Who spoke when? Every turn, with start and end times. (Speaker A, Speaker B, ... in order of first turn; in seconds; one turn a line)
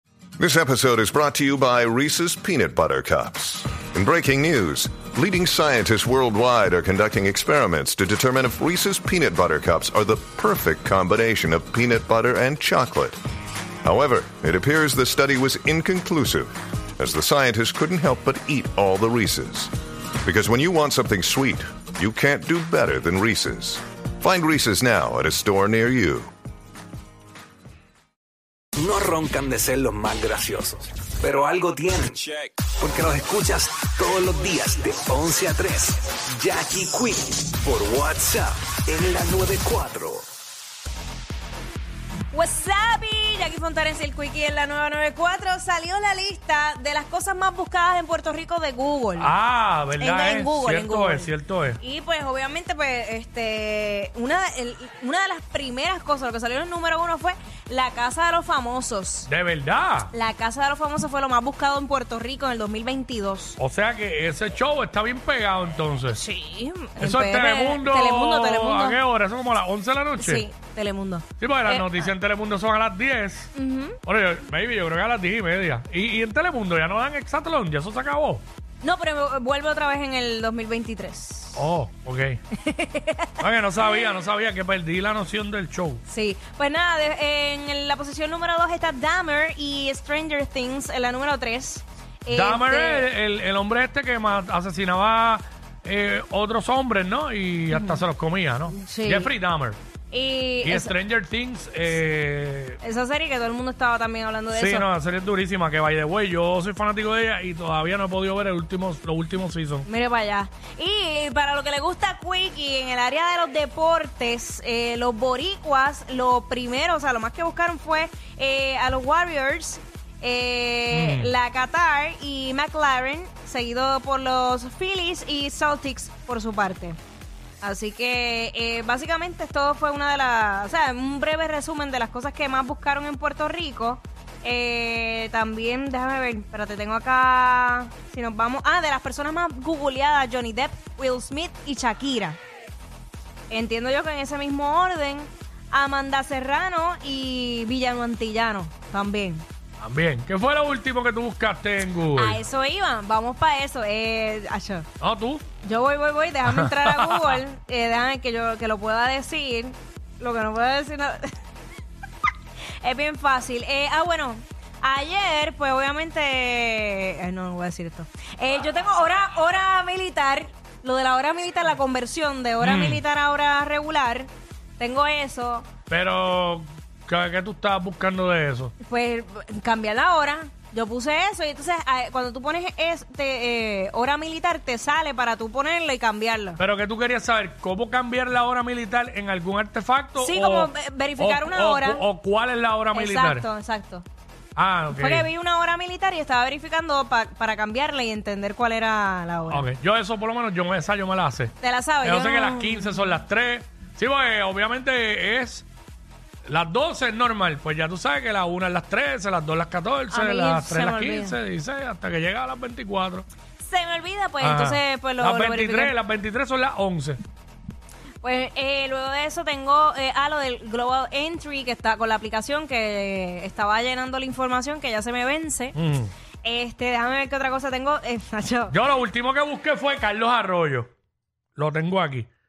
Speaker A: 0.4-13.2
Speaker A: 13.8-19.7
Speaker A: 20.2-26.3
Speaker B: 28.8-40.2
Speaker C: 42.3-49.3
Speaker D: 49.2-51.8
Speaker C: 50.0-59.3
Speaker D: 59.3-60.1
Speaker C: 60.1-63.6
Speaker D: 63.6-66.2
Speaker C: 66.1-69.0
Speaker D: 67.0-70.5
Speaker C: 70.2-72.0
Speaker D: 71.4-73.5
Speaker C: 73.5-74.0
Speaker D: 74.0-78.4
Speaker C: 78.8-81.6
Speaker D: 81.5-82.4
Speaker C: 82.6-83.4
Speaker D: 83.4-86.0
Speaker C: 86.1-93.1
Speaker D: 92.3-99.8
Speaker C: 97.7-98.0
Speaker C: 98.7-99.3
Speaker C: 100.1-100.9
Speaker D: 100.6-102.8
Speaker C: 102.8-104.9
Speaker D: 104.5-109.8
Speaker C: 109.8-127.0
Speaker D: 120.9-121.3
Speaker C: 127.6-142.4
Speaker C: 143.5-149.4
Speaker D: 149.8-152.4
Speaker C: 152.1-154.9
Speaker D: 155.0-155.5
Speaker C: 155.6-161.2
Speaker D: 156.4-157.4
Speaker C: 162.8-175.7
Speaker D: 172.6-173.0
Speaker D: 175.9-178.7
Speaker C: 178.8-186.6
Speaker D: 186.6-193.4
Speaker C: 190.2-192.1
Speaker C: 192.9-194.0
Speaker D: 194.6-195.3
Speaker C: 194.9-199.7
Speaker D: 199.5-205.7
Speaker C: 201.6-203.0
Speaker D: 206.4-213.2
Speaker C: 210.1-211.4
Speaker C: 213.6-215.9
Speaker D: 214.4-217.2
Speaker C: 218.2-225.8
Speaker D: 225.7-226.1
Speaker C: 226.4-228.7
Speaker D: 228.7-230.9
Speaker D: 231.6-232.3